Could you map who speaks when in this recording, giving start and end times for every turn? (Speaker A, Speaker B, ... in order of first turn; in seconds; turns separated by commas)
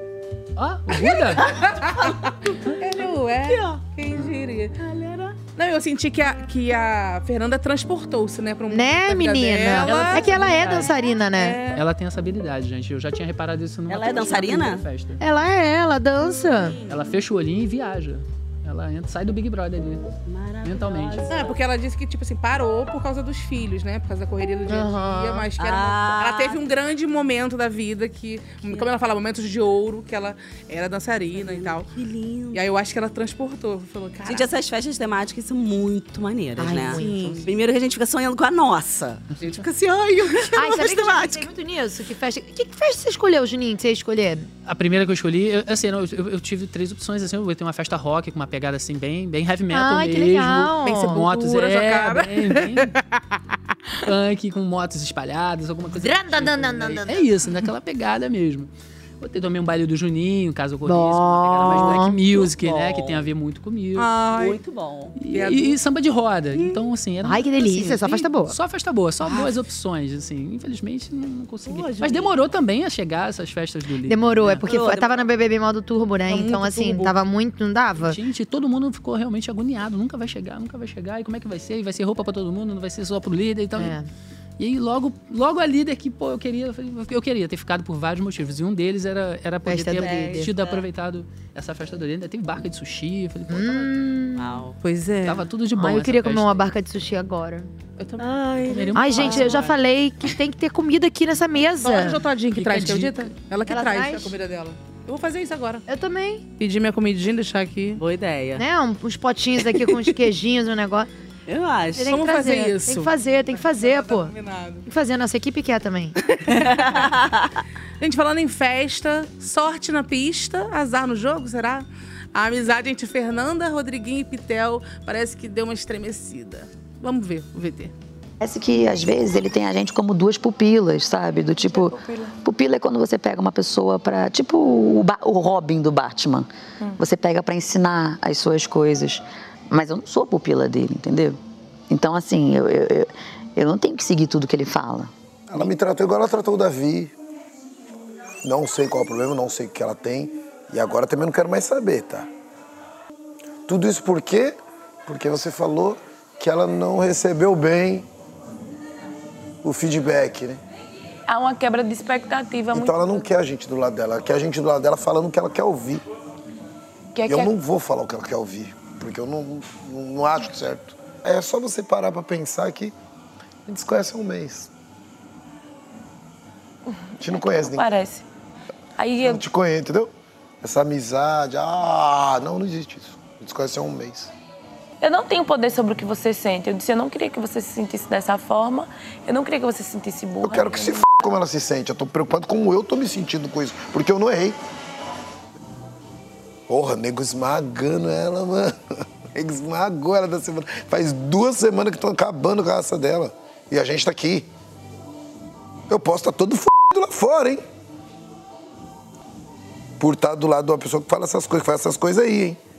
Speaker A: 0.6-1.5, Speaker B: 1.1-4.8, Speaker C: 1.4-2.1, Speaker C: 3.4-3.8, Speaker C: 4.8-5.3, Speaker B: 5.4-10.3, Speaker D: 8.7-11.6, Speaker A: 9.8-10.9, Speaker B: 11.3-11.8, Speaker A: 11.7-15.2, Speaker C: 13.9-14.8, Speaker D: 15.2-16.8, Speaker C: 16.6-17.0, Speaker A: 16.9-20.0, Speaker C: 20.2-21.6, Speaker A: 20.6-21.2, Speaker B: 21.3-31.9, Speaker D: 24.7-25.5, Speaker C: 25.6-26.6, Speaker C: 28.6-28.9, Speaker C: 31.3-32.6, Speaker B: 32.5-34.5, Speaker C: 34.2-41.5, Speaker D: 36.6-37.4, Speaker B: 36.9-37.5, Speaker D: 40.5-44.5, Speaker A: 44.6-52.9, Speaker D: 49.7-51.3, Speaker B: 50.9-53.0, Speaker A: 54.0-64.1, Speaker D: 56.0-57.4, Speaker D: 60.9-62.2, Speaker C: 62.4-63.2, Speaker B: 64.0-64.6, Speaker C: 64.3-65.2, Speaker A: 65.2-74.7, Speaker B: 65.3-65.8, Speaker D: 67.2-68.5, Speaker C: 71.7-72.3, Speaker D: 74.0-78.2, Speaker C: 74.7-75.3, Speaker B: 76.3-77.1, Speaker A: 78.0-83.9, Speaker D: 83.8-84.0, Speaker A: 84.6-93.9, Speaker D: 89.6-90.5, Speaker C: 90.0-90.8, Speaker D: 93.5-94.5, Speaker C: 94.3-94.7, Speaker B: 94.8-95.4, Speaker A: 95.2-96.7, Speaker D: 95.7-97.7, Speaker B: 98.0-99.5, Speaker C: 98.2-98.9, Speaker A: 98.7-99.7, Speaker D: 98.9-102.2, Speaker B: 101.8-105.8, Speaker A: 102.5-103.3, Speaker D: 103.7-104.3, Speaker D: 105.9-106.5, Speaker B: 106.6-108.0, Speaker C: 108.0-108.6, Speaker D: 108.6-111.1, Speaker C: 109.7-110.1, Speaker C: 111.5-112.3, Speaker D: 112.0-114.3, Speaker B: 112.1-114.8, Speaker D: 114.8-116.2, Speaker C: 116.6-117.5, Speaker B: 118.0-127.9, Speaker E: 128.4-141.4, Speaker E: 141.9-145.1, Speaker F: 145.5-147.1, Speaker F: 148.4-152.3, Speaker F: 153.7-158.1, Speaker F: 159.6-160.6, Speaker G: 161.3-163.2, Speaker F: 162.7-166.0, Speaker G: 167.2-167.5, Speaker F: 167.3-172.9, Speaker F: 173.7-174.7, Speaker F: 177.2-177.9, Speaker G: 177.4-178.2, Speaker G: 179.0-179.4, Speaker F: 179.2-184.3, Speaker G: 185.0-191.0, Speaker F: 190.4-194.6, Speaker F: 196.7-198.8, Speaker F: 199.3-204.5, Speaker F: 205.9-207.6, Speaker F: 210.0-212.6